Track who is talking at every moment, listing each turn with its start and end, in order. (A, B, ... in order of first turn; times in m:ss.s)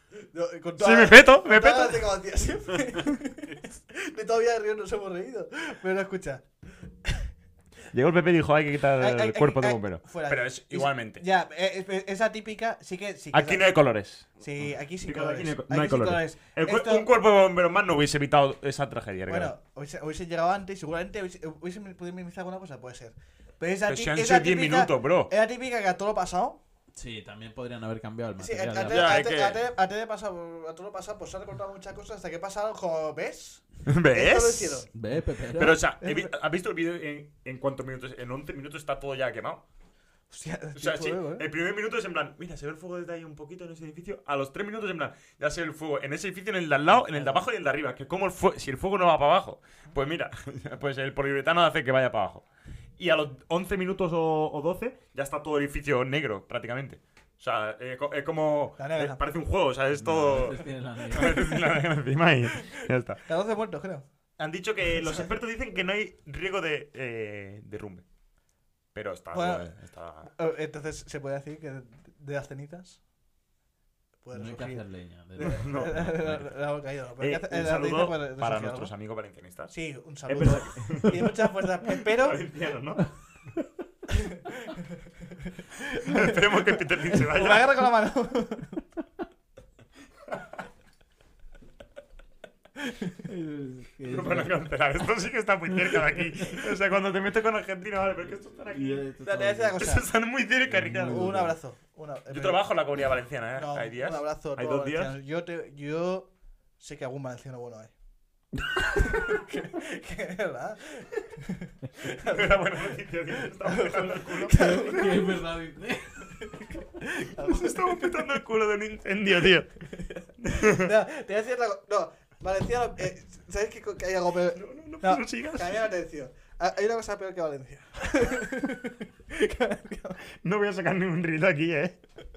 0:00.3-0:07.3 A
0:00.8-0:02.1 B
0:07.9-0:11.2 B
0:09.0-0:13.8 A
0:13.3-0:14.4 B
0:14.4-0:17.1 A
0:15.0-0:19.5 B
0:19.3-0:26.6 A
0:23.9-0:25.3 B
0:27.0-0:29.2 C
0:28.4-0:34.9 A
0:28.9-0:29.6 B
0:33.9-0:34.9 B
0:34.9-0:35.8 C
0:35.6-0:39.6 B
0:36.0-0:36.3 A
0:40.3-0:41.5 A
0:40.8-0:52.5 B
0:53.0-1:03.2 B
0:58.8-0:59.2 A
1:00.0-1:01.4 C
1:03.2-1:04.1 A
1:04.4-1:08.0 B
1:04.9-1:05.3 A
1:08.9-1:10.3 B
1:09.3-1:09.7 A
1:10.2-1:13.0 A
1:14.2-1:18.9 A
1:14.3-1:16.0 C
1:15.4-1:16.5 B
1:17.2-1:19.7 B
1:19.7-1:22.4 A
1:20.3-1:23.1 B
1:24.1-1:24.8 A
1:25.6-1:28.8 A
1:26.0-1:27.7 B
1:33.2-1:34.6 C
1:34.1-1:39.0 B
1:38.7-1:39.8 C
1:39.2-1:40.1 A
1:39.8-1:41.4 B
1:40.7-1:41.5 C
1:40.9-1:42.7 A
1:42.3-1:45.2 B
1:43.5-1:47.9 A
1:48.9-1:55.4 A
1:52.2-1:55.0 B
1:54.5-1:56.4 C
1:57.0-1:58.4 A
1:57.4-1:59.7 B
1:59.9-2:10.2 A
2:00.4-2:00.9 B
2:04.6-2:05.8 B
2:10.4-2:12.0 B